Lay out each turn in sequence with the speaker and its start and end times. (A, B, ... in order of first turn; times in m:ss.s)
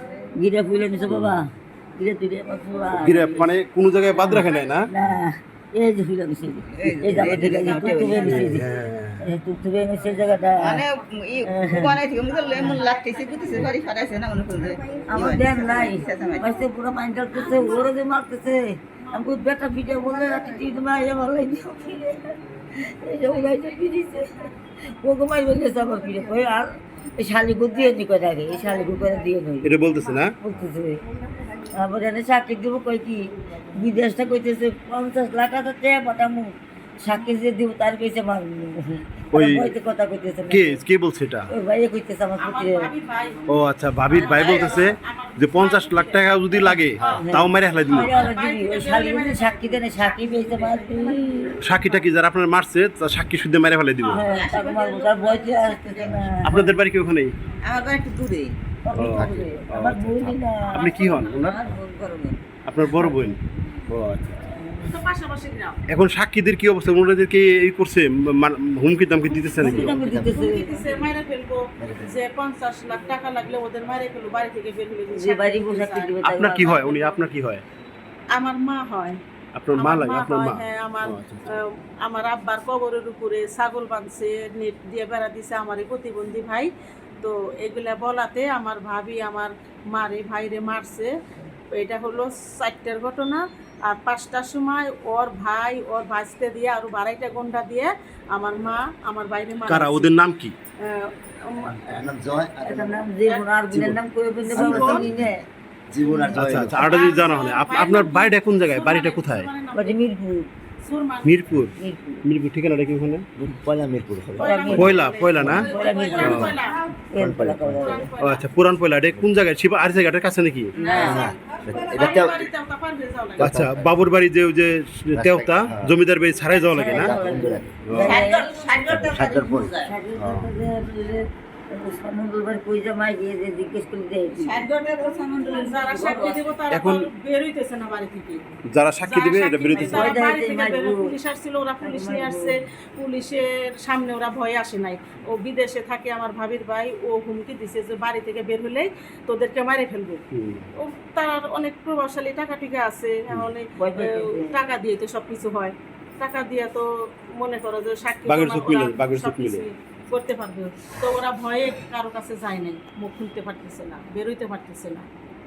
0:00.4-0:03.5 A
0:01.1-0:01.4 B
0:03.0-0:04.9 B
0:04.9-0:08.7 A
0:06.8-0:08.6 C
0:08.3-0:09.2 B
0:09.2-0:10.8 A
0:10.6-0:16.6 C
0:11.4-0:12.0 A
0:15.1-0:29.7 A
0:17.4-0:17.8 D
0:29.6-0:30.3 B
0:30.4-0:31.0 A
0:31.7-0:40.8 A
0:39.3-0:39.7 B
0:40.5-0:41.5 B
0:41.5-0:42.9 A
0:42.4-0:43.4 D
0:43.5-0:48.1 B
0:44.1-0:47.2 D
0:47.0-0:47.2 E
0:47.2-0:51.6 A
0:47.9-0:49.8 D
0:51.6-0:54.3 B
0:54.0-0:54.2 D
0:54.1-0:56.8 A
0:54.2-0:56.2 C
0:56.4-0:57.3 B
0:57.6-0:58.6 C
0:58.8-1:02.4 A
0:59.0-1:01.6 B
0:59.0-0:59.5 E
1:00.6-1:01.5 D
1:02.7-1:03.4 B
1:03.9-1:04.5 B
1:04.6-1:05.0 A
1:04.8-1:05.8 D
1:05.9-1:10.0 B
1:09.6-1:10.8 A
1:09.6-1:10.5 E
1:10.2-1:17.2 D
1:11.8-1:12.2 E
1:15.1-1:16.8 A
1:16.2-1:17.6 B
1:18.3-1:19.2 D
1:19.5-1:21.6 B
1:19.8-1:31.1 D
1:31.8-1:40.1 D
1:39.6-1:40.5 B
1:40.8-1:41.8 D
1:41.6-1:43.0 E
1:42.6-1:45.3 A
1:43.7-1:44.0 E
1:44.4-1:45.1 D
1:44.5-1:47.0 E
1:46.0-1:46.5 A
1:46.3-1:49.5 B
1:46.7-1:50.0 D
1:49.7-1:50.5 A
1:50.8-1:51.6 D
1:51.2-1:53.2 B
1:51.8-1:52.2 A
1:53.4-1:55.6 E
1:54.4-1:56.8 D
1:54.4-1:58.1 A
1:54.4-1:55.7 B
1:55.4-1:56.6 C
1:56.2-1:56.6 E
1:56.2-1:56.6 B
1:57.2-1:58.1 E
1:57.8-1:58.4 D
1:58.2-2:00.8 B
2:00.8-2:01.4 C
2:00.8-2:01.3 A
2:00.9-2:02.5 E
2:01.9-2:03.5 D
2:03.4-2:03.9 E
2:03.4-2:07.1 B
2:05.1-2:05.9 E
2:06.7-2:08.5 A
2:06.8-2:08.0 E
2:07.8-2:08.2 B
2:08.0-2:09.9 C
2:08.8-2:09.8 E
2:09.8-2:14.6 A
2:14.4-2:16.5 C
2:15.5-2:18.4 D
2:15.8-2:16.2 A
2:16.7-2:17.1 B
2:18.7-2:20.2 B
2:19.0-2:30.2 D
2:19.8-2:21.1 A
2:21.8-2:22.5 A
2:30.3-2:30.7 B
2:30.8-2:45.1 D
2:33.8-2:34.5 A
2:38.3-2:39.7 B